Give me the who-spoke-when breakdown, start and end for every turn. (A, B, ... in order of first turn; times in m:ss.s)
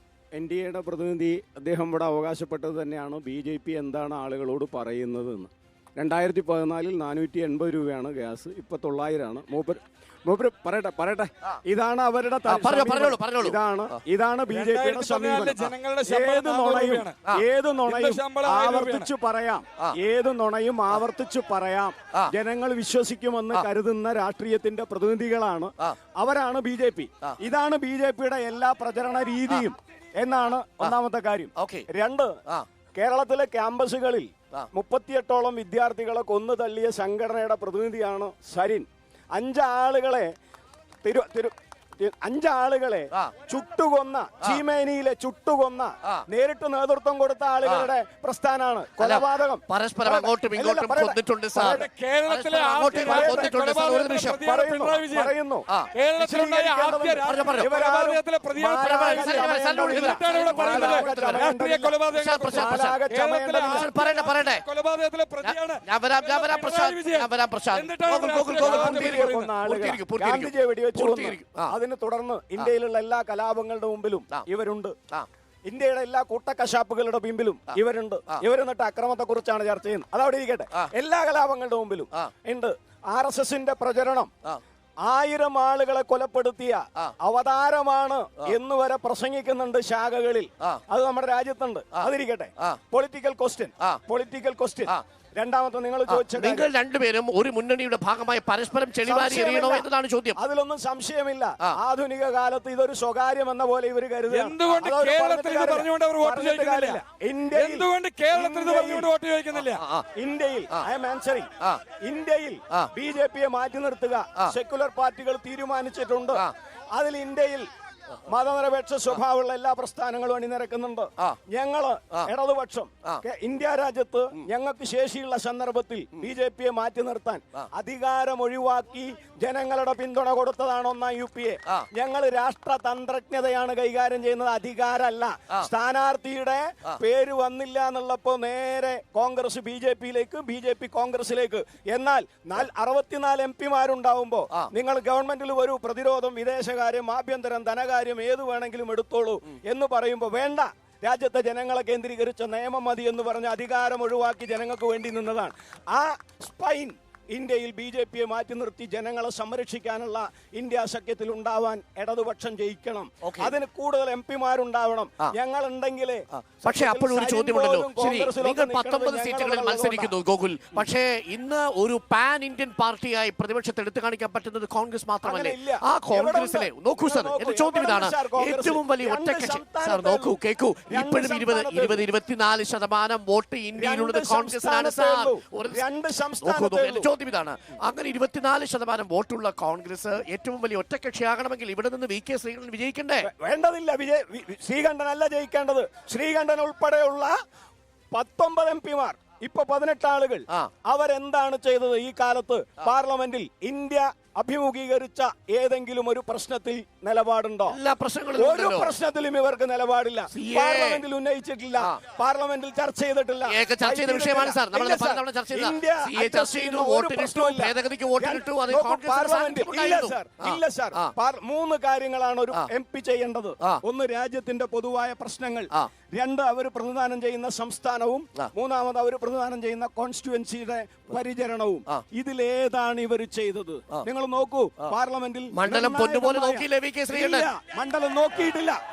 0:00.4-0:32.4 A
0:12.5-0:13.6 B
0:14.5-0:17.2 C
0:17.9-0:19.1 C
0:31.6-0:31.8 B
0:33.0-0:40.3 A
0:41.0-0:51.9 A
0:49.0-0:54.4 B
0:51.6-0:55.3 C
0:52.9-0:53.5 A
0:54.4-1:02.0 A
0:55.9-1:09.5 C
0:57.2-0:57.7 B
0:58.8-1:01.4 B
1:02.1-1:03.0 B
1:02.5-1:03.9 A
1:03.6-1:04.6 B
1:05.4-1:11.7 B
1:08.6-1:14.9 A
1:15.7-1:24.3 A
1:25.0-1:36.7 A
1:36.1-1:40.4 B
1:39.0-1:49.1 A
1:44.3-1:47.0 C
1:47.5-1:49.8 C
1:49.7-1:50.0 B
1:50.1-1:51.5 A
1:52.0-1:57.7 A
1:58.2-2:50.1 A
2:43.2-2:43.5 B
2:46.3-3:05.9 B
2:55.2-3:00.4 A
3:00.9-3:02.1 A
3:03.8-3:07.1 A
3:06.4-3:13.3 B
3:13.2-3:17.3 A
3:18.1-3:27.8 A
3:27.7-3:28.9 B
3:28.4-3:58.8 A
3:30.3-3:31.0 B
3:33.5-3:41.1 B
3:55.5-3:57.5 B